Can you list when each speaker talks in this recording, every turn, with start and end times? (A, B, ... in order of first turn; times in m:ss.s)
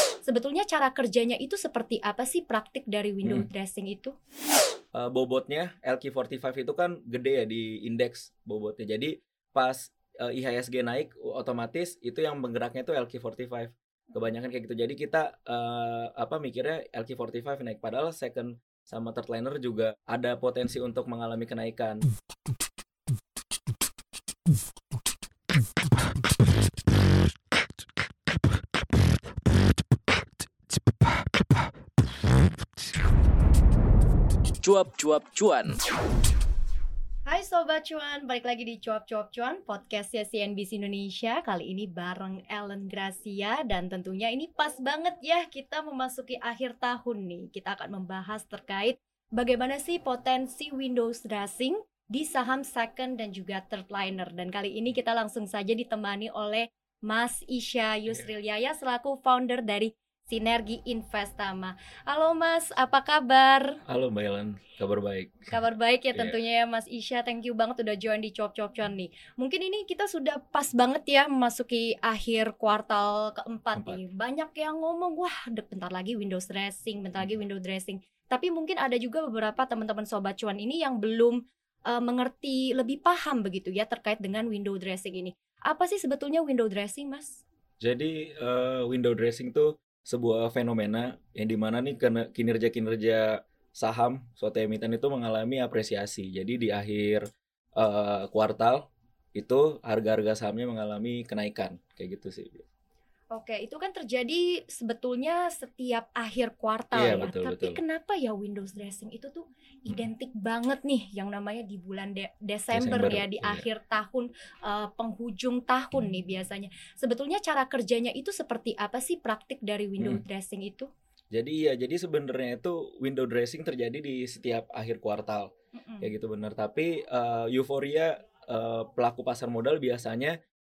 0:00.2-0:04.1 A
0:04.9-0:22.0 B
0:34.6-0:35.8 B
0:37.3-1:03.8 A
1:03.8-1:05.5 B
1:05.5-1:21.4 A
1:21.9-1:27.4 A
1:27.8-1:37.2 B
1:37.8-1:38.8 B
1:39.4-1:42.6 B
1:43.3-2:00.9 A
1:46.9-1:47.8 B
1:52.7-1:53.6 B
2:01.3-2:10.4 B
2:05.7-2:06.1 A